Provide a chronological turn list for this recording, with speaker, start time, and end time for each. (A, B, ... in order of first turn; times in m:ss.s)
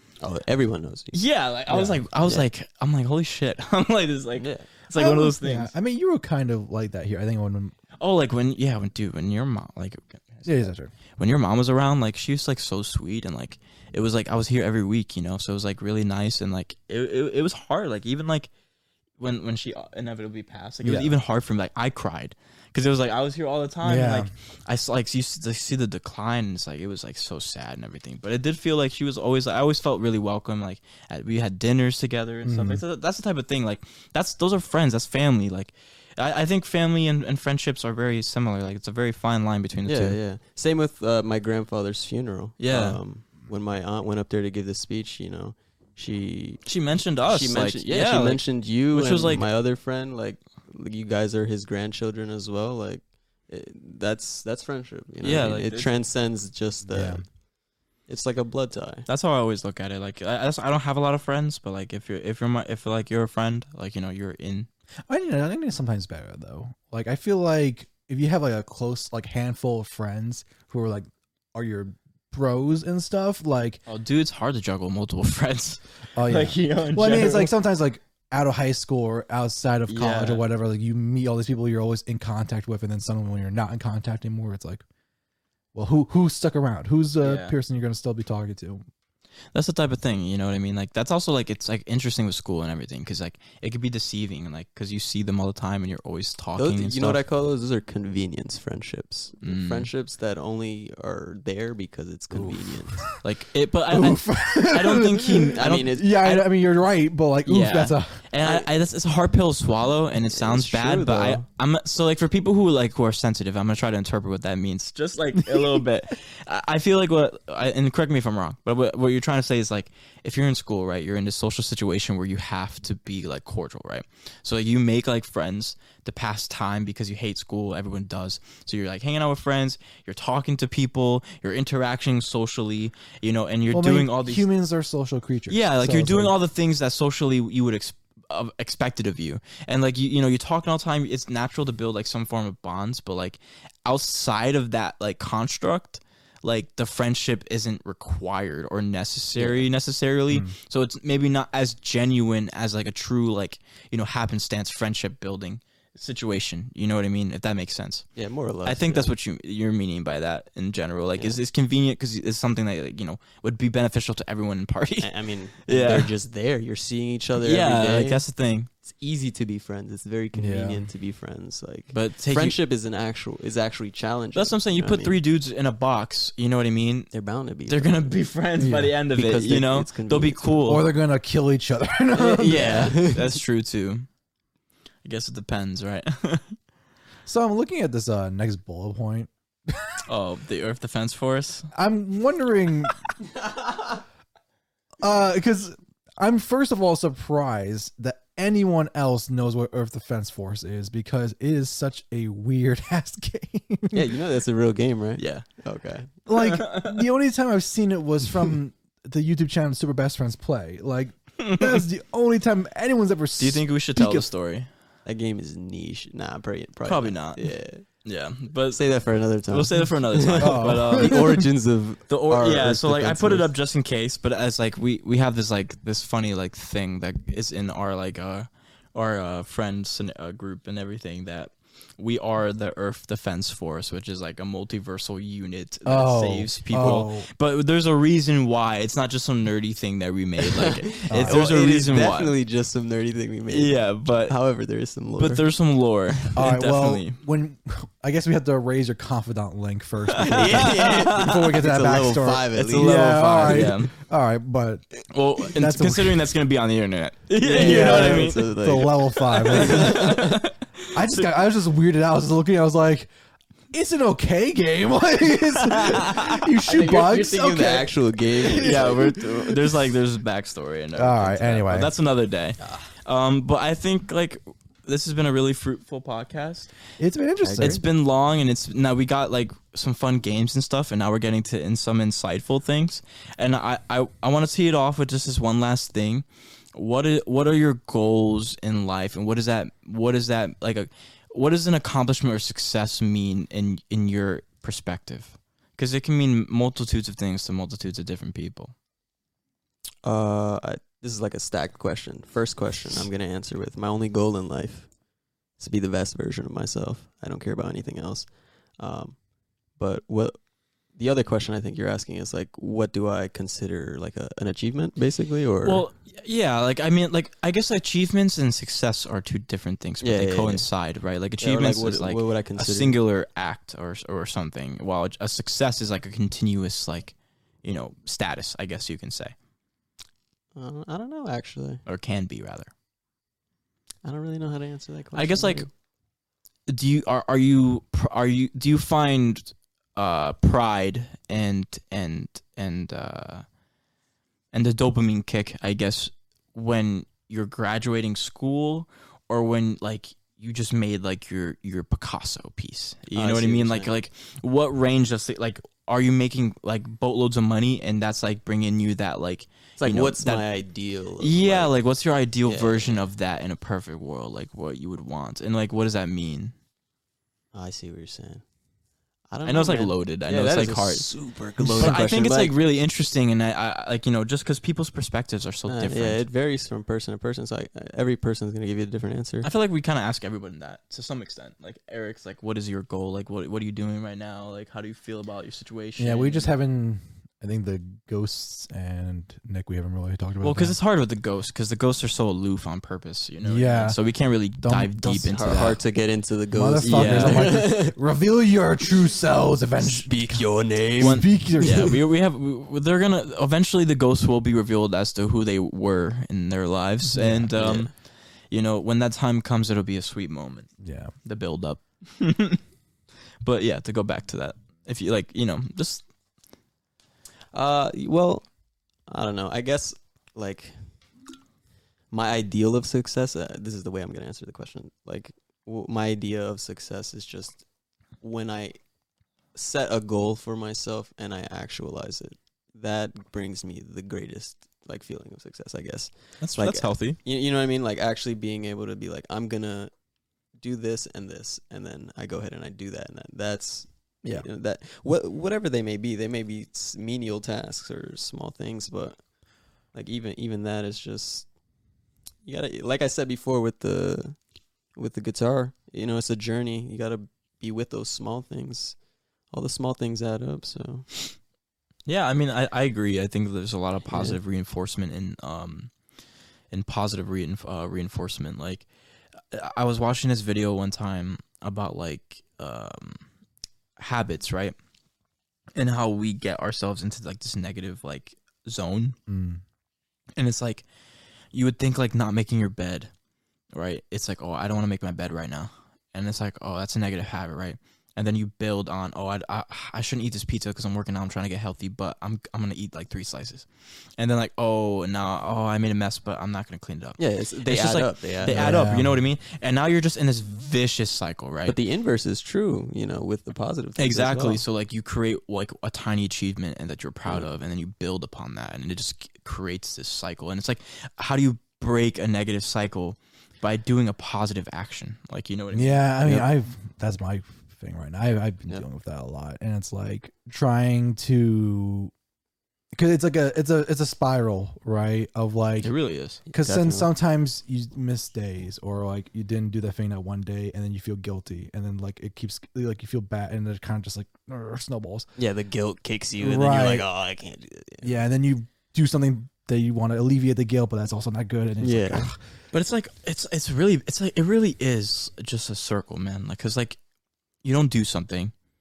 0:00.2-0:01.2 A
0:01.1-0:05.7 B
0:01.7-0:02.4 A
0:04.4-0:04.7 A
0:05.0-0:07.7 C
0:08.0-0:10.5 B
0:10.4-0:10.9 C
0:11.2-0:18.5 B
0:19.2-0:40.2 B
0:20.8-0:21.2 C
0:23.8-0:24.3 C
0:32.4-0:32.8 C
0:39.8-0:46.6 A
0:42.6-0:43.0 B
0:46.6-0:49.4 B
0:47.3-0:57.2 A
0:55.2-0:55.9 B
0:56.9-0:57.2 C
0:58.1-0:59.0 A
0:59.1-1:04.7 B
1:05.1-1:13.8 C
1:13.9-1:17.5 B
1:16.2-1:24.8 C
1:19.9-1:20.4 B
1:25.7-1:28.8 C
1:27.2-1:27.5 B
1:29.5-1:37.2 B
1:36.6-1:43.0 A
1:39.4-1:39.9 B
1:42.3-1:43.1 C
1:43.2-1:46.5 B
1:43.9-1:48.2 C
1:45.5-1:46.1 A
1:47.4-2:14.5 B
1:50.3-1:51.4 A
2:13.7-2:16.4 C
2:15.5-2:38.1 B
2:29.4-2:29.6 A
2:38.2-2:39.1 A
2:38.6-2:45.1 B
2:45.0-2:48.2 A
2:45.7-2:46.1 B
2:47.4-2:48.7 B
2:48.8-2:55.2 A
2:50.3-2:50.8 C
2:51.9-2:52.6 B
2:54.3-2:57.1 B
2:57.1-2:58.2 A
2:57.7-3:00.8 B
2:58.6-2:58.9 C
2:59.1-3:00.6 A
3:00.6-3:02.9 C
3:02.1-3:03.4 A
3:02.5-3:04.1 B
3:05.0-3:06.6 B
3:07.2-3:10.0 C
3:10.0-3:11.7 B
3:11.7-3:13.1 C
3:15.0-3:24.1 C
3:23.9-3:26.1 A
3:25.2-3:25.4 B
3:26.3-3:34.3 C
3:26.3-3:26.9 B
3:31.4-3:31.8 B
3:33.4-3:34.7 B
3:35.0-3:37.8 A
3:36.8-3:38.9 B
3:38.7-3:43.5 A
3:39.5-3:41.4 B
3:40.4-3:41.4 C
3:42.1-4:02.3 B
3:55.8-3:57.3 C
4:00.4-4:05.4 A
4:01.1-4:01.5 C
4:03.5-4:04.4 B
4:05.2-4:07.2 B
4:06.3-4:14.9 C
4:10.2-4:11.4 B
4:10.2-4:13.7 A
4:12.6-4:13.9 B
4:15.1-4:18.4 B
4:15.5-4:16.3 C
4:17.4-4:20.4 A
4:17.4-4:20.3 C
4:19.3-4:21.3 B
4:20.9-4:23.1 C
4:23.7-4:29.2 C
4:25.6-4:26.4 B
4:26.7-4:29.2 A
4:28.5-4:36.7 B
4:31.0-4:31.9 C
4:32.6-4:32.8 A
4:37.0-4:37.8 C
4:37.4-4:37.8 A
4:37.6-4:58.7 B
5:00.0-5:04.9 A
5:05.6-5:09.2 A
5:09.8-5:10.4 A
5:10.9-5:15.8 A
5:15.6-5:29.3 B
5:20.0-5:20.7 A
5:21.4-5:23.0 A
5:30.6-5:31.8 A
5:31.9-5:32.7 B
5:34.0-5:35.7 A
5:35.1-5:35.7 B
5:36.7-5:43.4 B
5:44.5-6:00.5 B
5:53.1-5:53.9 A
5:59.8-6:01.7 A
6:01.2-6:06.5 B
6:02.4-6:03.0 A
6:07.5-6:08.4 A
6:09.3-6:12.5 A
6:09.4-6:11.2 B
6:11.6-6:12.0 C
6:11.7-6:16.2 B
6:15.7-6:19.5 A
6:19.4-6:26.5 B
6:26.0-6:30.8 C
6:30.4-6:35.8 B
6:33.4-6:34.0 C
6:34.6-6:35.4 C
6:35.3-6:38.0 A
6:36.5-6:40.4 C
6:36.8-6:37.6 B
6:39.8-6:41.9 A
6:41.0-6:41.9 C
6:41.0-6:47.9 B
6:47.1-6:47.5 C
6:47.6-6:47.9 A
6:48.5-6:52.6 B
6:50.8-6:51.1 C
6:53.4-6:56.0 B
6:57.5-6:58.5 A
6:59.1-7:00.8 A
7:02.1-7:07.6 A
7:08.2-7:08.8 A
7:09.5-7:19.9 A
7:16.4-7:17.2 B
7:20.6-7:29.2 A
7:29.9-7:31.5 A
7:32.4-7:34.4 A
7:34.9-7:39.0 A
7:39.5-7:41.1 A
7:42.0-7:45.9 B
7:44.1-7:44.4 A
7:46.7-7:48.9 B
7:49.5-7:53.2 B
7:54.0-7:54.7 B
7:55.7-7:59.1 B
7:59.3-7:59.6 C
8:00.4-8:00.8 B
8:01.5-8:03.1 B
8:03.7-8:13.7 B
8:14.2-8:21.8 B
8:17.2-8:18.7 A
8:18.5-8:19.2 C
8:21.6-8:24.6 A
8:24.0-8:36.4 B
8:35.7-8:42.1 C
8:42.9-8:45.9 C
8:45.8-8:46.4 B
8:46.5-8:47.1 A
8:46.5-8:55.3 C
8:55.4-8:58.1 A
8:56.4-8:57.0 C
8:58.0-9:02.4 C
9:01.8-9:02.3 A
9:02.7-9:07.0 B
9:07.6-9:08.5 B